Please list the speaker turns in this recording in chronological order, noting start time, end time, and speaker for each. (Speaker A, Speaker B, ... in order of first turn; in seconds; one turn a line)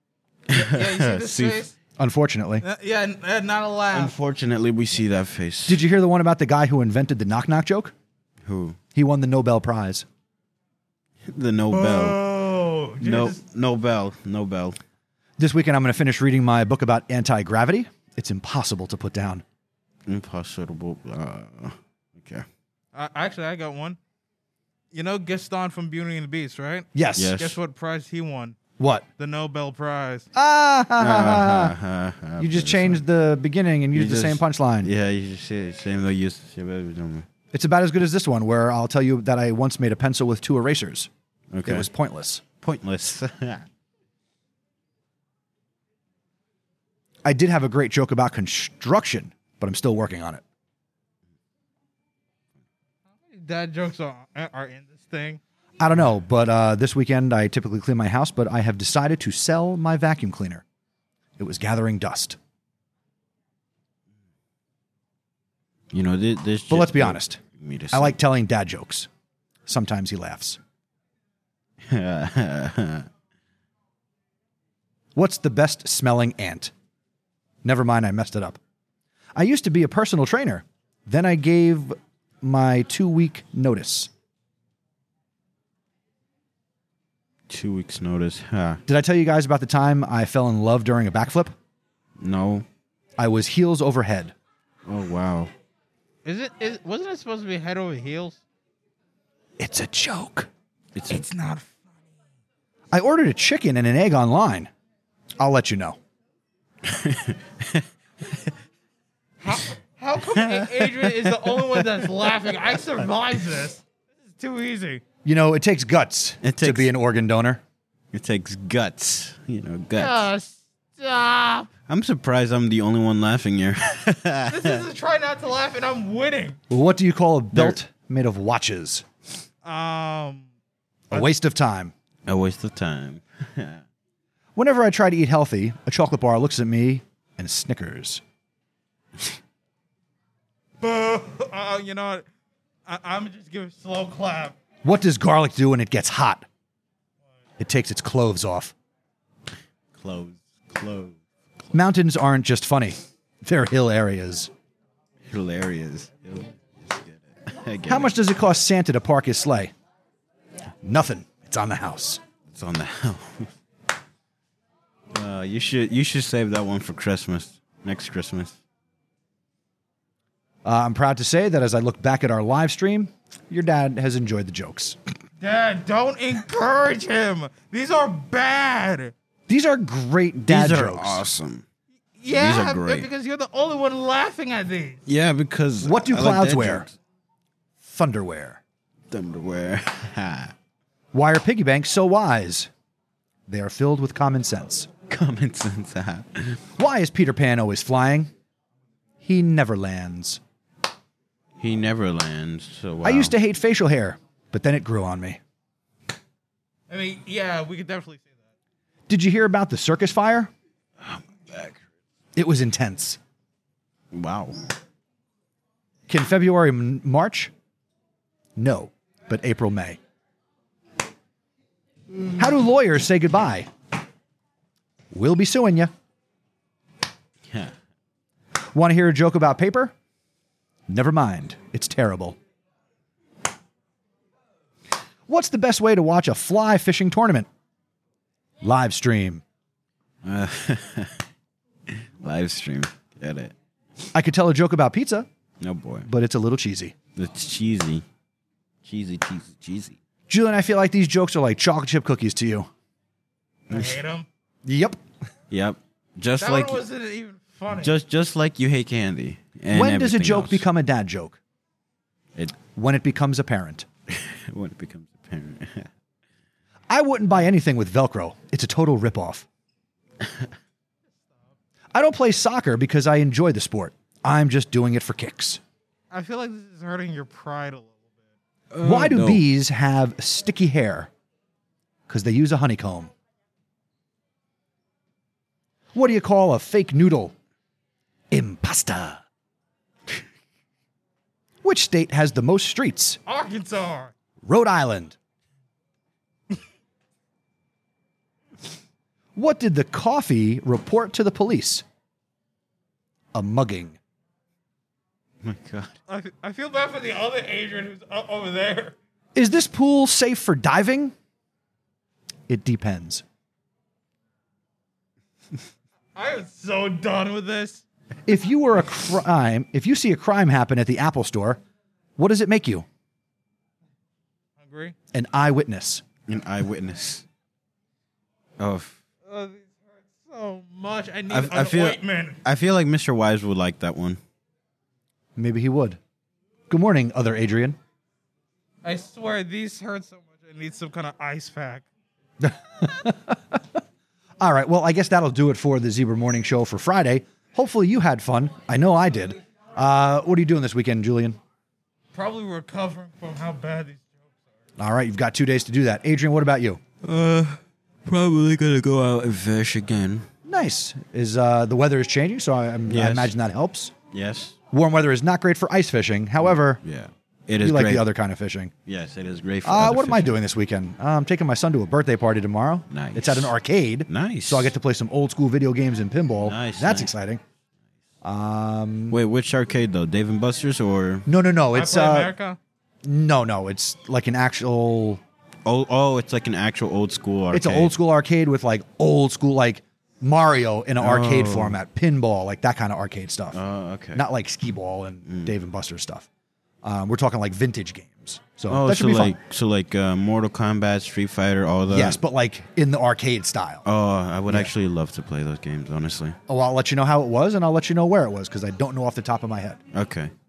Speaker A: 0.5-1.6
Speaker B: 0.5-1.7
Speaker C: 2.0-2.6
Speaker B: 2.6-4.1
Speaker A: 3.9-5.8
Speaker C: 5.7-7.9
Speaker A: 8.4-8.8
Speaker C: 8.9-10.1
Speaker A: 11.3-12.2
Speaker B: 11.7-13.4
Speaker A: 13.0-14.8
Speaker C: 15.4-19.4
Speaker A: 20.1-22.4
Speaker B: 22.9-24.0
Speaker B: 24.9-28.6
Speaker C: 26.9-27.4
Speaker A: 27.1-27.6
Speaker C: 28.8-29.0
Speaker B: 29.2-30.3
Speaker C: 30.3-31.7
Speaker A: 31.0-33.0
Speaker C: 32.4-34.9
Speaker A: 33.9-37.3
Speaker C: 37.5-41.1
Speaker A: 41.5-41.9
Speaker C: 41.6-42.4
Speaker A: 42.6-43.6
Speaker C: 47.2-50.4
Speaker B: 53.2-55.4
Speaker C: 55.8-60.6
Speaker C: 61.4-62.4
Speaker A: 65.9-68.2
Speaker C: 66.7-67.4
Speaker C: 67.9-69.1
Speaker C: 69.7-70.6
Speaker A: 71.8-73.1
Speaker C: 75.1-76.7
Speaker C: 77.6-78.6
Speaker C: 79.3-84.1
Speaker A: 87.5-88.8
Speaker C: 88.9-91.5
Speaker A: 92.2-92.6
Speaker C: 93.2-94.3
Speaker A: 94.8-95.5
Speaker B: 96.2-98.4
Speaker C: 99.6-100.5
Speaker A: 100.9-101.2
Speaker B: 101.1-102.0
Speaker C: 102.9-104.7
Speaker C: 105.4-106.0
Speaker A: 106.8-107.8
Speaker B: 109.4-115.0
Speaker A: 110.3-112.1
Speaker C: 115.2-117.6
Speaker A: 116.4-116.9
Speaker A: 118.1-120.2
Speaker B: 119.9-121.7
Speaker A: 121.9-124.8
Speaker B: 124.5-126.6
Speaker C: 126.7-129.0
Speaker B: 129.6-130.5
Speaker C: 131.1-131.9
Speaker A: 132.2-133.8
Speaker C: 134.6-138.2
Speaker B: 140.8-142.3
Speaker B: 142.8-144.6
Speaker C: 144.8-146.4
Speaker C: 147.6-148.7
Speaker A: 149.9-151.2
Speaker C: 151.7-154.5
Speaker A: 155.3-158.1
Speaker C: 157.8-159.7
Speaker C: 160.8-162.2
Speaker A: 162.5-163.5
Speaker A: 165.1-168.6
Speaker C: 170.6-175.0
Speaker B: 175.4-179.1
Speaker C: 179.5-181.2
Speaker A: 180.4-181.6
Speaker B: 182.2-185.0
Speaker A: 182.3-183.1
Speaker A: 185.1-186.9
Speaker C: 185.8-186.9
Speaker C: 187.8-188.6
Speaker A: 189.1-190.5
Speaker C: 191.1-192.7
Speaker C: 193.5-194.9
Speaker A: 195.1-196.6
Speaker C: 196.8-198.3
Speaker C: 199.2-200.4
Speaker A: 201.6-203.3
Speaker C: 203.0-205.4
Speaker B: 206.9-208.4
Speaker C: 209.1-210.5
Speaker A: 211.0-211.8
Speaker C: 212.3-213.2
Speaker A: 214.1-214.7
Speaker C: 216.1-217.5
Speaker C: 218.6-220.0
Speaker C: 222.3-223.7
Speaker C: 225.1-225.9
Speaker C: 228.6-229.9
Speaker C: 230.9-232.4
Speaker C: 235.3-237.5
Speaker C: 238.6-239.4
Speaker A: 240.2-241.2
Speaker A: 241.9-243.5
Speaker C: 244.1-245.3
Speaker A: 245.6-246.1
Speaker C: 246.0-246.9
Speaker A: 247.1-248.0
Speaker A: 248.8-250.0
Speaker C: 250.3-252.7
Speaker B: 253.7-254.3
Speaker C: 254.6-255.0
Speaker A: 255.5-256.8
Speaker B: 256.4-257.9
Speaker A: 257.8-260.6
Speaker C: 259.7-261.4
Speaker C: 262.6-263.9
Speaker A: 264.1-265.9
Speaker C: 266.9-269.4
Speaker C: 271.9-275.6
Speaker B: 276.1-278.2
Speaker A: 278.7-279.4
Speaker C: 278.8-281.1
Speaker C: 282.1-283.1
Speaker C: 285.9-287.3
Speaker C: 288.3-289.2
Speaker C: 291.6-293.2
Speaker B: 293.2-294.1
Speaker C: 294.4-295.1
Speaker C: 299.3-301.8
Speaker C: 303.3-304.0
Speaker A: 305.4-305.9
Speaker B: 306.1-308.9
Speaker C: 309.3-311.1
Speaker C: 312.5-313.2
Speaker B: 316.1-317.8
Speaker C: 318.3-321.6
Speaker C: 322.2-322.9
Speaker B: 324.6-324.9
Speaker C: 325.1-326.0
Speaker A: 326.3-327.2
Speaker A: 328.6-329.0
Speaker B: 329.2-332.4
Speaker A: 331.3-334.2
Speaker C: 335.4-336.0
Speaker C: 336.7-337.8
Speaker B: 338.8-341.9
Speaker C: 342.4-343.8
Speaker C: 344.4-351.4
Speaker B: 352.1-354.3
Speaker C: 354.8-356.8
Speaker A: 357.0-360.3
Speaker C: 360.4-363.9
Speaker A: 362.9-363.3
Speaker A: 364.1-364.6
Speaker C: 364.7-366.8
Speaker A: 366.7-368.1
Speaker C: 367.6-368.7
Speaker A: 368.9-370.4
Speaker C: 369.6-377.4
Speaker A: 372.9-373.5
Speaker A: 374.1-374.7
Speaker A: 376.4-377.1
Speaker C: 378.2-379.2
Speaker A: 379.1-381.3
Speaker C: 381.3-382.3
Speaker B: 381.7-382.6
Speaker C: 383.0-385.2
Speaker A: 385.6-387.9
Speaker C: 387.5-393.6
Speaker A: 391.0-391.8
Speaker A: 393.5-394.2
Speaker C: 394.1-396.3
Speaker A: 395.3-395.5
Speaker C: 396.8-399.4
Speaker A: 398.7-402.2
Speaker C: 401.9-403.8
Speaker A: 403.8-406.4
Speaker C: 406.5-409.8
Speaker A: 409.9-410.3